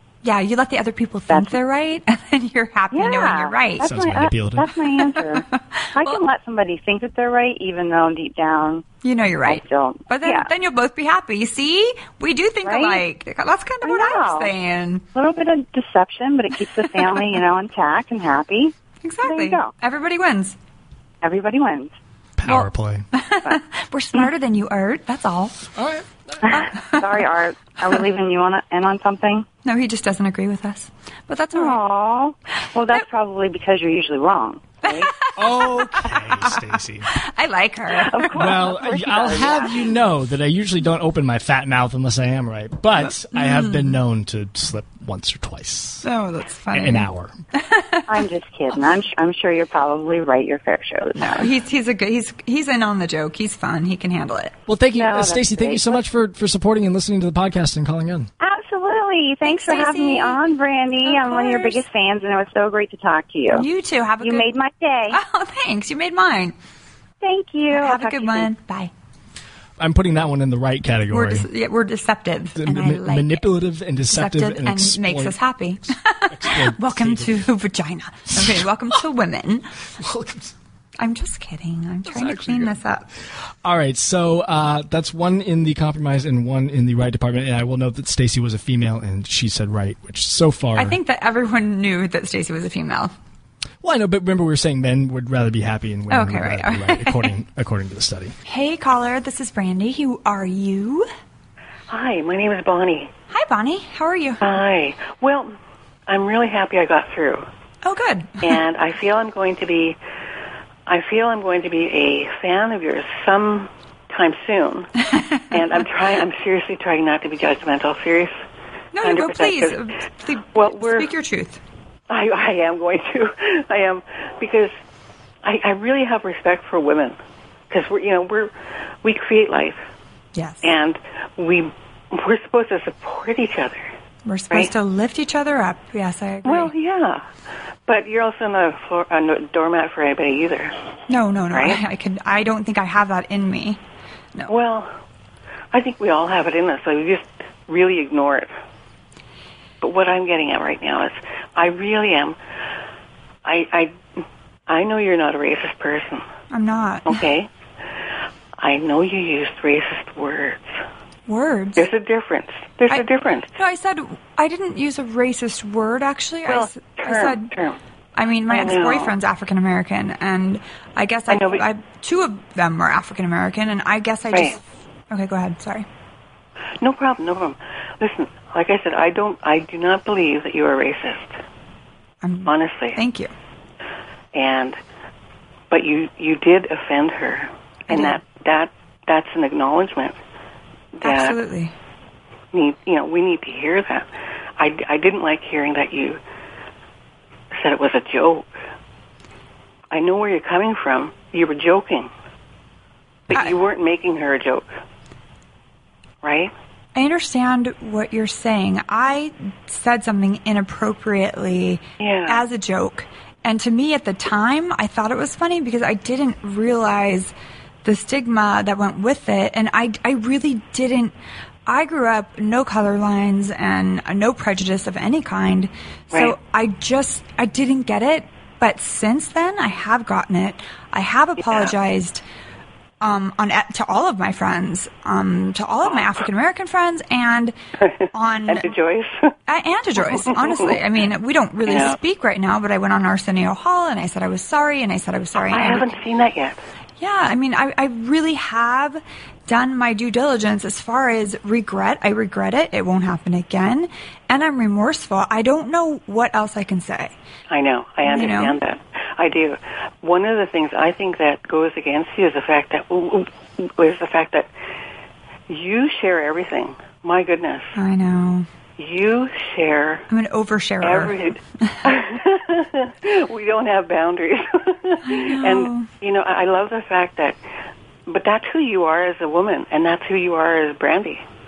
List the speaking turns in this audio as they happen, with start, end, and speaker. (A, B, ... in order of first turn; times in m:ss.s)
0:00.2-0:03.8 A
0:01.3-0:01.6 B
0:02.9-0:08.8 B
0:03.8-0:04.7 C
0:09.0-0:15.0 A
0:09.4-0:10.5 B
0:12.6-0:13.0 B
0:13.8-0:14.5 B
0:15.1-0:19.7 B
0:19.0-0:20.6 A
0:21.2-0:21.9 B
0:22.4-0:23.0 C
0:22.4-0:25.6 A
0:25.7-0:26.5 C
0:26.5-0:29.5 B
0:26.5-0:27.0 A
0:29.6-0:31.8 A
0:31.5-0:35.1 B
0:34.8-0:36.6 A
0:35.4-0:37.1 C
0:37.1-0:38.3 A
0:37.9-0:39.9 B
0:38.3-0:46.0 C
0:43.3-0:43.9 A
0:46.0-0:48.0 A
0:46.7-0:47.3 C
0:48.1-0:51.5 B
0:51.2-0:54.5 A
0:54.7-0:58.3 C
0:54.9-0:56.0 B
0:58.4-1:03.6 B
0:59.4-1:00.4 A
1:01.0-1:01.8 A
1:03.5-1:04.5 A
1:04.2-1:05.2 B
1:05.1-1:06.5 A
1:07.2-1:08.5 B
1:07.7-1:08.9 A
1:09.8-1:11.5 C
1:11.1-1:13.4 A
1:12.6-1:15.4 C
1:14.1-1:19.7 A
1:16.3-1:17.4 C
1:18.3-1:18.6 C
1:20.0-1:20.5 C
1:21.0-1:23.1 A
1:22.0-1:22.7 C
1:23.6-1:31.0 C
1:30.8-1:33.1 A
1:33.8-1:38.3 C
1:36.1-1:37.3 A
1:38.4-1:41.1 A
1:41.9-1:43.1 D
1:43.3-1:44.4 A
1:44.4-1:45.5 D
1:46.1-1:47.4 D
1:47.8-1:48.5 A
1:48.4-1:50.0 D
1:50.9-1:54.9 D
1:55.5-1:58.3 D
1:58.9-2:01.6 A
1:59.0-1:59.8 D
2:00.5-2:01.1 D
2:02.1-2:04.7 D
2:05.4-2:07.2 D
2:07.7-2:08.5 D
2:09.0-2:09.8 D
2:10.3-2:10.7 A
2:10.6-2:13.9 D
2:14.2-2:16.7 A
2:16.4-2:17.2 D
2:17.9-2:20.7 D
2:21.1-2:23.8 A
2:21.5-2:21.8 D
2:24.5-2:24.9 D
2:25.7-2:28.5 D
2:29.8-2:32.4 D
2:33.4-2:34.0 D
2:34.7-2:36.2 D
2:36.5-2:37.2 A
2:37.0-2:37.5 D
2:38.6-2:40.8 D
2:41.3-2:41.8 A
2:41.8-2:43.5 D
2:43.6-2:47.5 A
2:46.4-2:47.8 D
2:48.2-2:55.8 A
2:48.5-2:49.1 D
2:51.3-2:51.6 D
2:54.3-2:54.6 D
2:56.8-3:01.4 D
3:02.2-3:03.3 A
3:02.4-3:03.0 D
3:04.3-3:04.8 D
3:05.7-3:10.2 D
3:07.9-3:08.2 A
3:11.0-3:11.4 D
3:11.0-3:11.7 A
3:12.5-3:14.1 D
3:14.6-3:16.2 D
3:17.5-3:18.5 D
3:19.9-3:22.1 D
3:23.3-3:24.7 D
3:26.2-3:26.5 D
3:26.9-3:37.3 A
3:32.0-3:32.4 D
3:37.8-3:41.1 A
3:41.7-3:52.2 A
3:51.4-3:51.7 D
3:53.0-3:57.5 A
3:57.8-3:59.3 D
3:58.1-3:58.7 A
3:59.5-4:05.8 A
4:00.0-4:00.8 D
4:01.6-4:02.0 D
4:05.3-4:06.6 D
4:07.0-4:17.1 A
4:17.5-4:24.5 D
4:18.0-4:18.6 A
4:25.5-4:27.7 D
4:27.8-4:28.5 A
4:28.8-4:30.0 D
4:30.1-4:31.8 A
4:30.8-4:37.4 D
4:35.0-4:35.9 A
4:38.1-4:41.2 D